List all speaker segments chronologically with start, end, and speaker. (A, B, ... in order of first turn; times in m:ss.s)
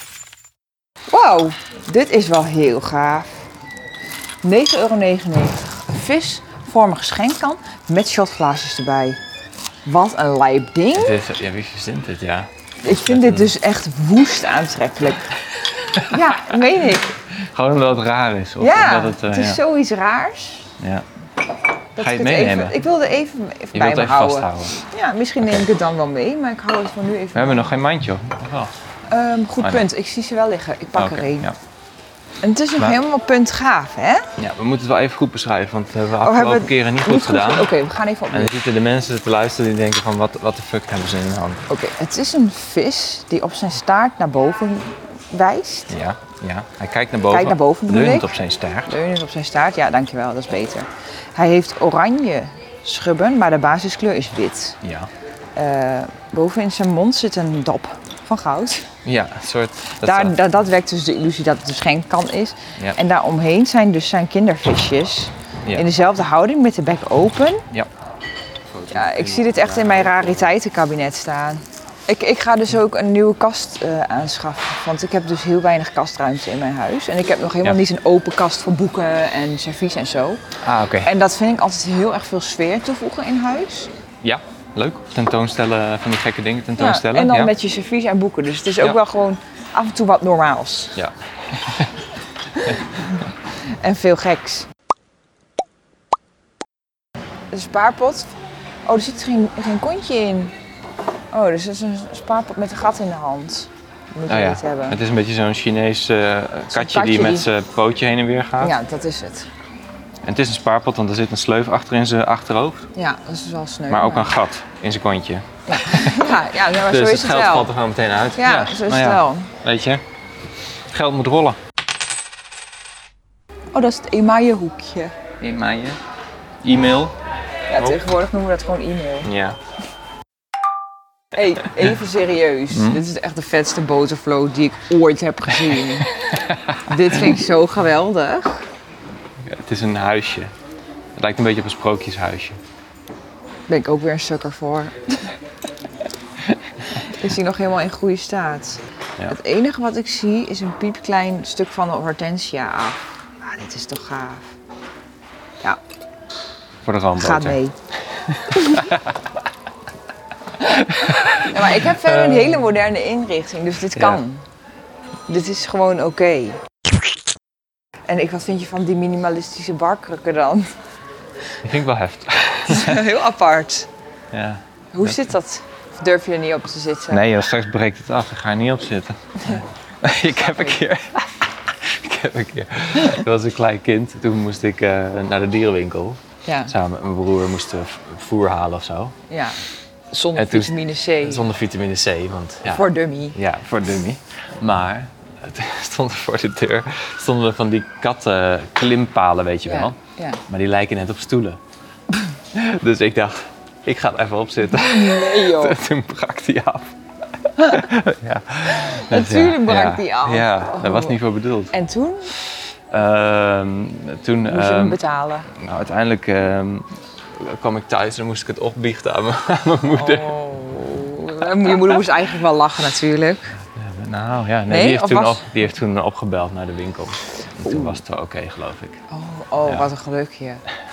0:01.1-0:03.5 A
0:04.4-0:09.2 A
0:09.9-0:11.2 A
0:10.9-0:13.5 B
0:12.8-0:15.4 A
0:15.9-0:17.2 A
0:16.0-0:16.4 B
0:17.4-0:19.6 B
0:18.6-0:20.7 A
0:20.8-0:21.1 B
0:22.0-0:27.7 A
0:22.0-0:22.8 B
0:23.7-0:24.8 B
0:27.3-0:28.7 B
0:29.1-0:31.5 A
0:29.6-0:29.9 B
0:31.0-0:31.6 B
0:32.4-0:34.3 A
0:34.4-0:37.7 B
0:36.2-0:38.5 A
0:38.3-0:41.6 B
0:41.7-0:45.9 A
0:45.9-0:48.9 B
0:47.3-0:48.3 A
0:48.9-0:54.8 A
0:54.8-0:55.1 B
0:55.6-0:58.9 A
0:59.0-1:00.4 B
1:00.0-1:07.6 A
1:08.7-1:10.5 B
1:08.9-1:20.4 A
1:20.6-1:21.1 B
1:21.0-1:23.9 A
1:24.2-1:27.5 B
1:26.8-1:31.0 A
1:31.0-1:32.0 B
1:32.6-1:34.7 A
1:37.5-1:40.5 A
1:41.3-1:45.0 A
1:44.3-1:48.8 B
1:46.7-1:47.5 A
1:48.6-1:49.5 A
1:50.2-1:52.9 B
1:53.0-1:54.4 A
1:53.9-2:00.0 B
1:55.7-1:57.7 A
1:58.4-1:59.5 A
2:00.9-2:01.6 B
2:03.7-2:05.2 A
2:05.4-2:06.0 B
2:06.6-2:07.2 B
2:07.7-2:09.3 A
2:07.8-2:08.0 B
2:09.2-2:09.6 B
2:11.3-2:16.2 A
2:12.7-2:13.0 B
2:16.8-2:18.6 A
2:19.4-2:20.5 B
2:21.2-2:22.6 B
2:23.7-2:25.3 A
2:26.9-2:34.5 A
2:36.8-2:37.6 B
2:37.2-2:37.8 A
2:38.3-2:39.1 B
2:38.5-2:38.9 A
2:40.7-2:44.4 A
2:41.0-2:41.4 B
2:42.0-2:42.6 B
2:44.0-2:44.2 B
2:45.3-2:46.6 A
2:48.1-2:50.8 A
2:51.6-2:53.1 B
2:52.7-2:53.9 A
2:54.3-2:55.3 B
2:54.9-2:57.2 A
2:57.1-3:09.2 B
3:00.4-3:00.8 A
3:06.4-3:06.7 A
3:09.3-3:09.6 A
3:10.1-3:11.5 A
3:10.4-3:20.0 B
3:12.7-3:13.4 A
3:19.7-3:20.4 A
3:20.5-3:21.6 B
3:22.5-3:31.8 B
3:24.7-3:25.8 A
3:28.7-3:31.2 A
3:31.7-3:32.3 A
3:32.9-3:40.3 B
3:34.5-3:35.5 A
3:39.9-3:43.5 A
3:43.6-3:49.0 B
3:44.7-3:45.5 A
3:47.6-3:48.0 A
3:49.1-3:50.6 A